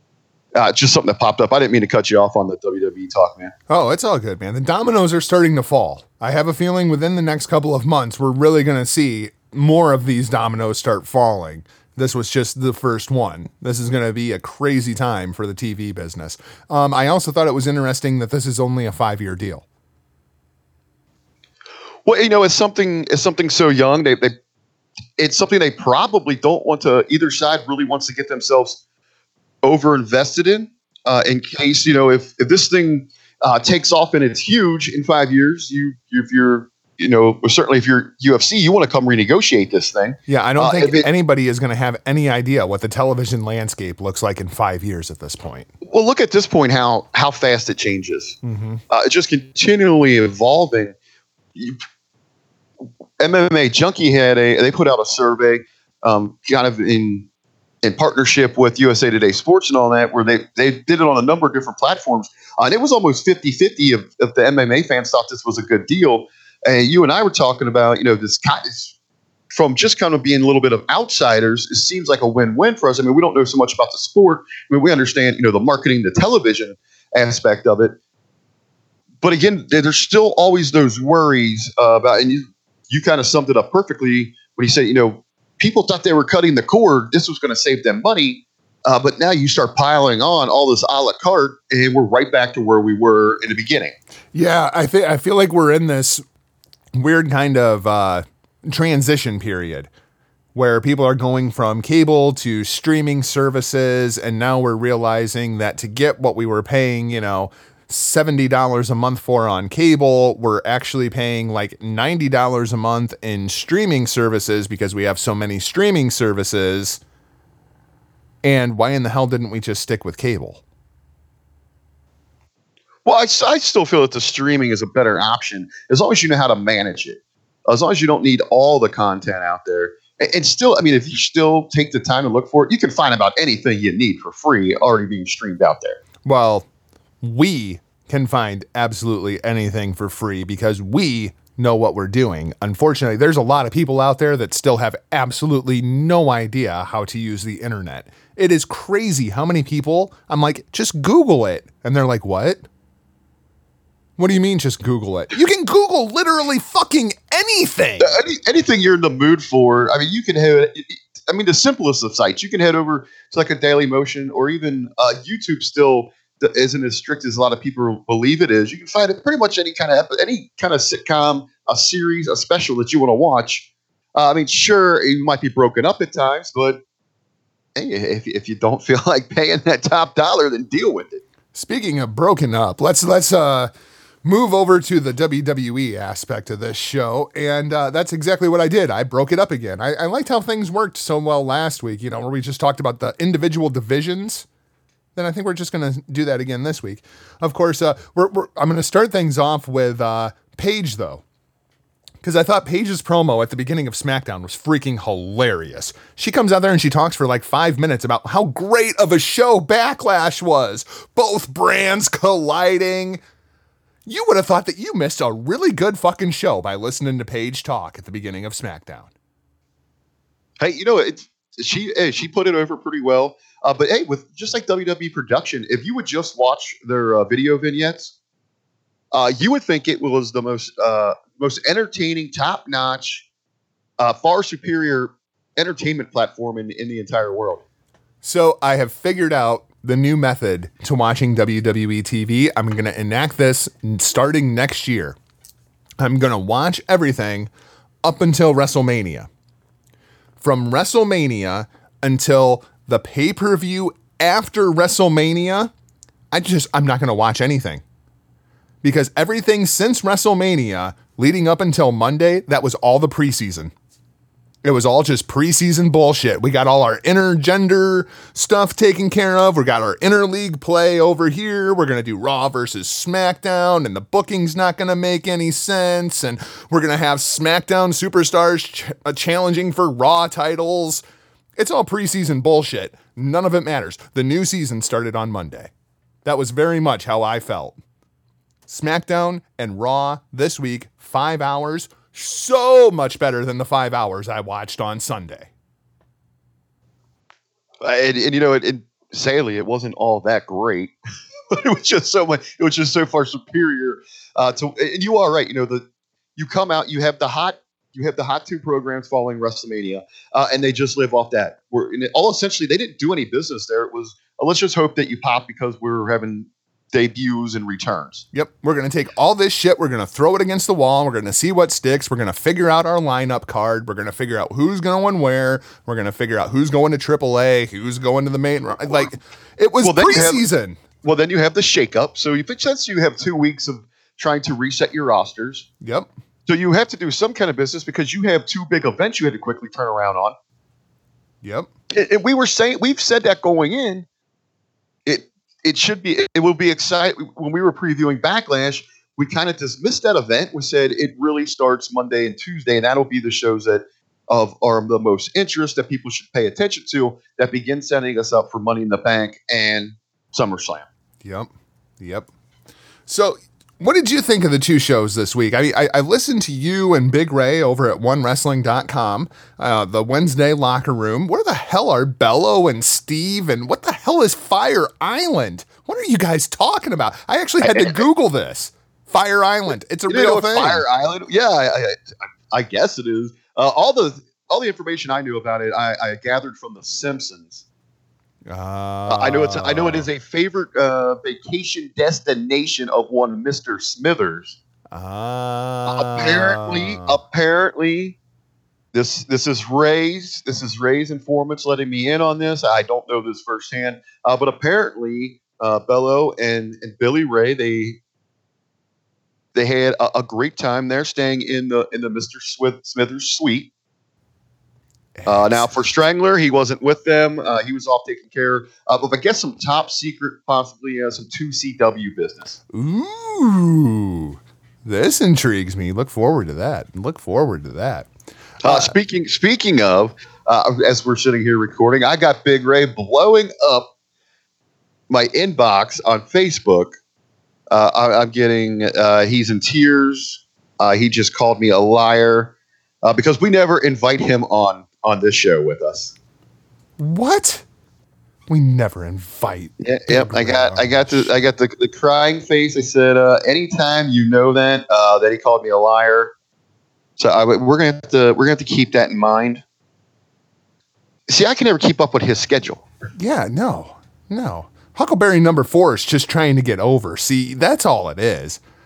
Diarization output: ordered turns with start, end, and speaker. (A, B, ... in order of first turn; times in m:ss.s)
0:00.5-0:03.5 A
0:03.7-0:19.6 B
0:22.0-0:24.4 A
0:25.2-0:28.8 A
0:29.6-0:41.1 A
0:40.3-0:45.7 B
0:45.8-0:48.4 A
0:48.4-0:48.8 B
0:48.9-0:50.9 A
0:51.5-0:51.8 A
0:53.2-0:57.2 A
0:57.8-1:08.9 A
1:09.5-1:17.9 A
1:19.2-1:33.9 A
1:34.3-1:36.2 B
1:36.9-1:39.9 B
1:40.5-1:57.0 B
1:58.4-2:00.6 B
2:03.0-2:16.0 A
2:16.2-2:16.6 B
2:17.2-2:32.6 B
2:34.2-2:38.2 B
2:38.0-2:56.8 A
2:57.8-3:01.2 A
3:01.5-3:03.7 B
3:04.2-3:14.4 B
3:15.1-3:21.2 B
3:22.2-3:33.2 B
3:34.0-3:39.1 B
3:40.6-3:48.1 A
3:49.1-3:53.2 A
3:54.0-3:57.6 A
3:58.2-4:05.2 B
4:06.0-4:07.5 B
4:08.0-4:09.3 B
4:10.4-4:15.7 B
4:16.3-4:17.8 B
4:18.8-4:23.7 B
4:24.6-4:41.0 B
4:41.6-4:45.7 B
4:46.2-4:47.8 B
4:48.7-4:55.5 B
4:57.8-5:00.9 A
5:01.5-5:05.8 A
5:06.4-5:18.2 A
5:18.3-5:30.8 B
5:29.8-5:30.4 A
5:31.0-5:35.7 A
5:35.8-5:36.1 B
5:36.5-5:40.4 A
5:41.4-5:41.7 B
5:41.9-5:44.0 A
5:45.0-6:00.8 A
6:01.2-6:02.3 B
6:03.1-6:20.8 B
6:17.6-6:18.0 A
6:20.1-6:27.6 A
6:28.4-6:30.1 B
6:29.1-6:34.6 A
6:34.9-6:37.2 B
6:35.9-6:38.2 A
6:38.9-6:48.0 A
6:49.5-6:53.7 A
6:55.2-6:55.8 B
6:55.3-7:02.6 A
7:02.7-7:08.1 B
7:08.6-7:13.9 A
7:08.6-7:08.9 B
7:15.1-7:17.0 A
7:17.7-7:26.1 A
7:27.0-7:27.6 B
7:28.5-7:31.3 B
7:29.8-7:36.3 A
7:37.2-7:39.6 A
7:41.3-7:42.8 A
7:43.2-7:48.6 B